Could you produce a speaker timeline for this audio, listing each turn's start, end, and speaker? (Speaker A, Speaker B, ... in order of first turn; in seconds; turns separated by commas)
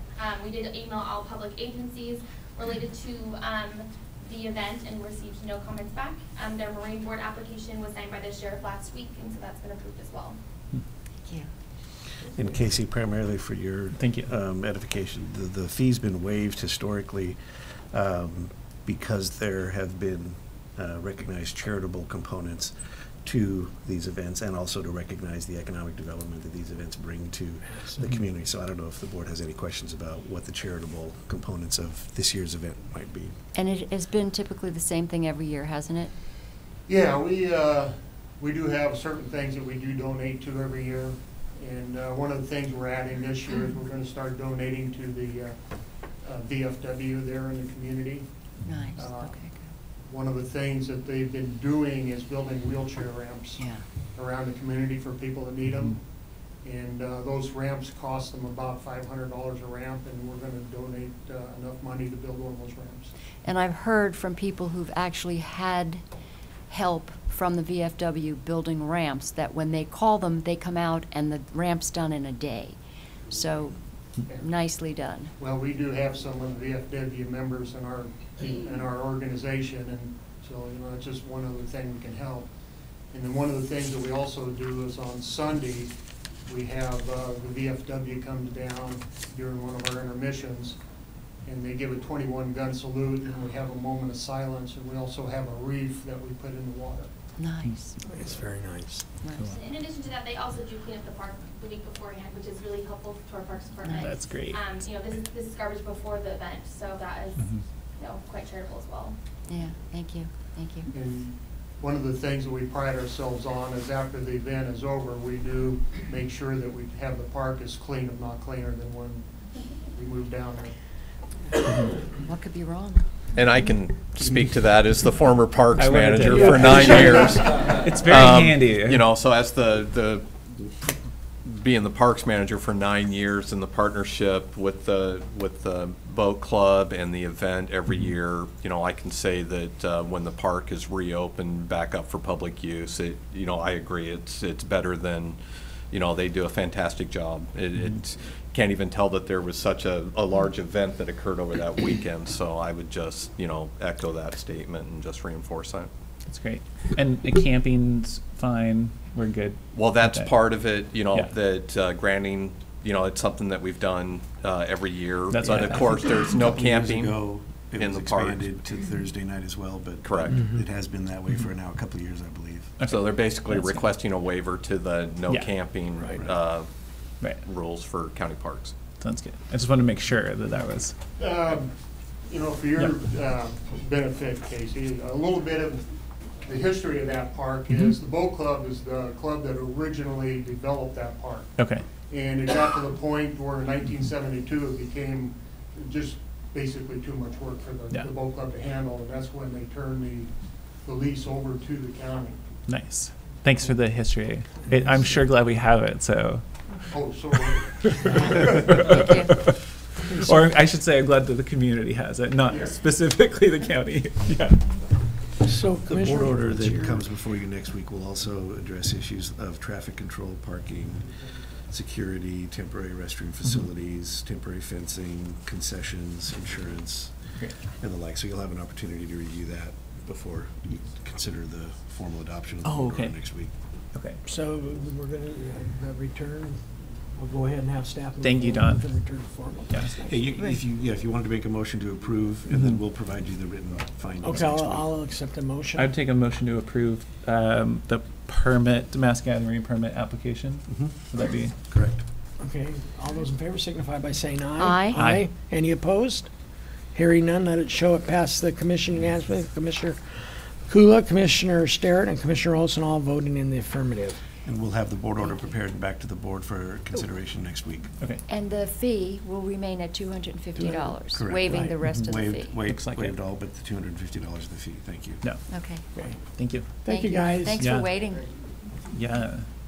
Speaker A: 0.2-10.4, Speaker B: 12.3-33.3, Speaker C: 13.9-14.3, Speaker D: 33.5-36.1, Speaker E: 36.9-45.5, Speaker E: 46.1-48.3, Speaker D: 48.6-49.6, Speaker E: 49.0-49.3, Speaker E: 50.0-53.6, Speaker D: 53.6-53.9, Speaker E: 54.1-56.0, Speaker E: 56.6-63.1, Speaker D: 63.4-66.0, Speaker D: 66.7-72.8, Speaker D: 73.3-73.8, Speaker D: 74.3-75.3, Speaker E: 75.4-82.5, Speaker E: 83.1-85.9, Speaker E: 86.5-90.8, Speaker E: 91.4-97.1, Speaker D: 97.4-97.9, Speaker C: 97.6-97.9, Speaker F: 98.1-99.1, Speaker D: 99.2-99.5, Speaker A: 99.4-109.2, Speaker C: 103.8-104.8, Speaker C: 107.4-107.6, Speaker D: 109.5-110.9, Speaker E: 110.9-120.7, Speaker D: 122.2-123.0, Speaker G: 123.3-145.4, Speaker C: 125.7-129.1, Speaker G: 145.9-155.9, Speaker C: 156.3-160.4, Speaker G: 159.7-167.2, Speaker C: 165.3-166.0, Speaker B: 166.3-172.7, Speaker G: 167.8-168.6, Speaker G: 170.0-170.4, Speaker C: 172.8-173.9, Speaker G: 172.9-176.7, Speaker G: 177.4-178.7, Speaker C: 179.0-180.9, Speaker E: 181.2-181.7, Speaker E: 182.3-185.8, Speaker E: 186.4-191.5, Speaker C: 191.6-191.8, Speaker E: 192.1-202.4, Speaker C: 202.7-206.4, Speaker E: 206.9-208.5, Speaker C: 208.5-214.8, Speaker F: 215.4-217.0, Speaker B: 215.8-233.5, Speaker C: 232.6-233.2, Speaker C: 233.9-234.2, Speaker F: 234.2-240.2, Speaker C: 238.2-238.9, Speaker C: 239.7-239.9, Speaker B: 240.0-244.9, Speaker C: 242.5-242.8, Speaker F: 244.2-245.9, Speaker C: 245.8-251.6, Speaker B: 250.7-251.0, Speaker B: 251.7-252.0, Speaker F: 252.4-256.3, Speaker D: 254.6-255.0, Speaker C: 254.9-255.2, Speaker F: 256.9-264.2, Speaker B: 264.4-267.9, Speaker D: 268.3-272.6, Speaker B: 271.1-275.2, Speaker C: 271.7-272.1, Speaker C: 272.6-273.2, Speaker D: 275.5-275.9, Speaker C: 276.2-276.8, Speaker F: 276.8-277.6, Speaker D: 276.9-278.2, Speaker C: 277.5-277.9, Speaker C: 278.9-279.5